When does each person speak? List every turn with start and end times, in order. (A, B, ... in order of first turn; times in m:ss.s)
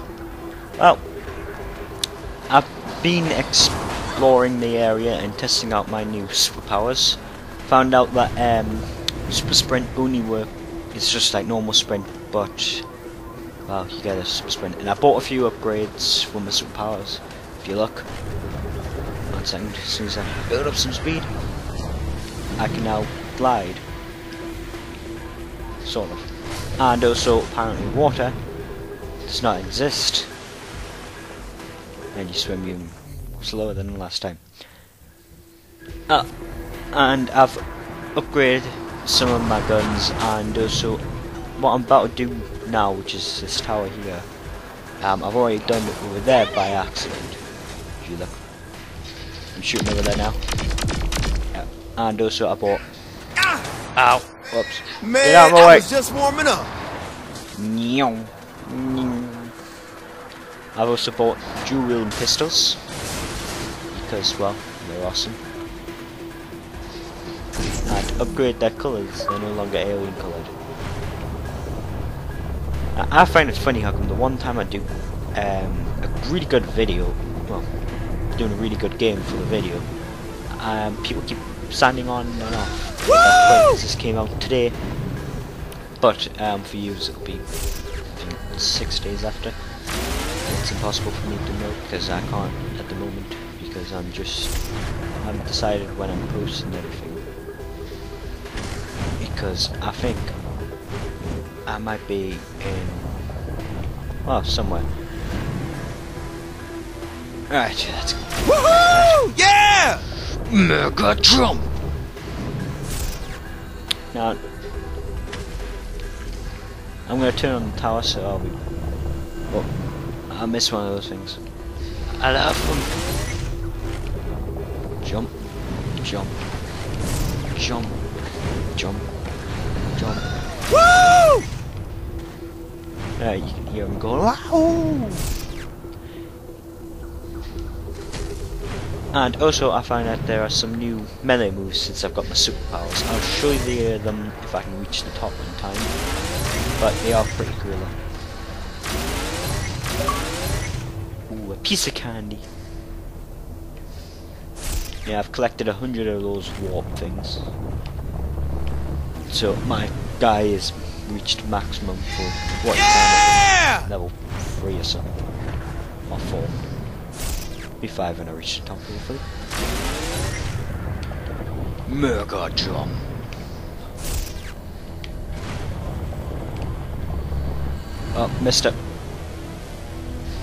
0:02.5-0:12.9 A
0:13.7-0:18.1 A
0:19.3-0:21.3 A
0:22.6-0:23.8 A
0:25.8-0:28.4 A
0:29.3-0:30.3 A
0:32.1-0:34.4 A
0:36.9-0:37.6 A
0:38.2-0:41.0 A
0:41.6-0:44.3 A
0:45.0-0:47.4 A
0:48.0-0:48.4 A
0:49.6-0:50.4 A
0:51.5-0:52.8 A
0:53.4-0:53.6 B
0:54.0-0:55.9 A
0:55.0-0:56.7 B
0:57.6-0:59.6 A
1:00.8-1:02.8 A
1:03.9-1:05.4 A
1:07.9-1:10.6 A
1:12.9-1:17.7 A
1:18.4-1:19.9 A
1:20.5-1:24.8 A
1:26.0-1:27.5 A
1:28.1-1:29.6 A
1:30.4-1:34.6 A
1:35.2-1:37.2 A
1:39.2-1:40.4 A
1:41.7-1:43.2 A
1:44.2-1:44.9 A
1:47.5-1:49.3 A
1:48.5-1:50.1 B
1:50.3-1:51.7 A
1:54.1-1:54.4 A
1:57.1-1:58.6 A
2:00.3-2:01.4 A
2:02.1-2:03.1 A
2:05.0-2:05.3 A
2:06.0-2:06.4 A
2:07.5-2:08.0 A
2:08.8-2:09.1 A
2:10.0-2:10.3 A
2:13.2-2:15.4 A
2:19.1-2:26.0 A
2:26.8-2:28.0 A
2:31.3-2:32.5 A
2:35.0-2:37.5 A
2:39.3-2:45.2 A
2:43.5-2:43.8 B
2:46.1-2:46.6 A
2:47.8-2:49.2 A
2:51.9-2:53.0 A
2:58.1-2:58.8 A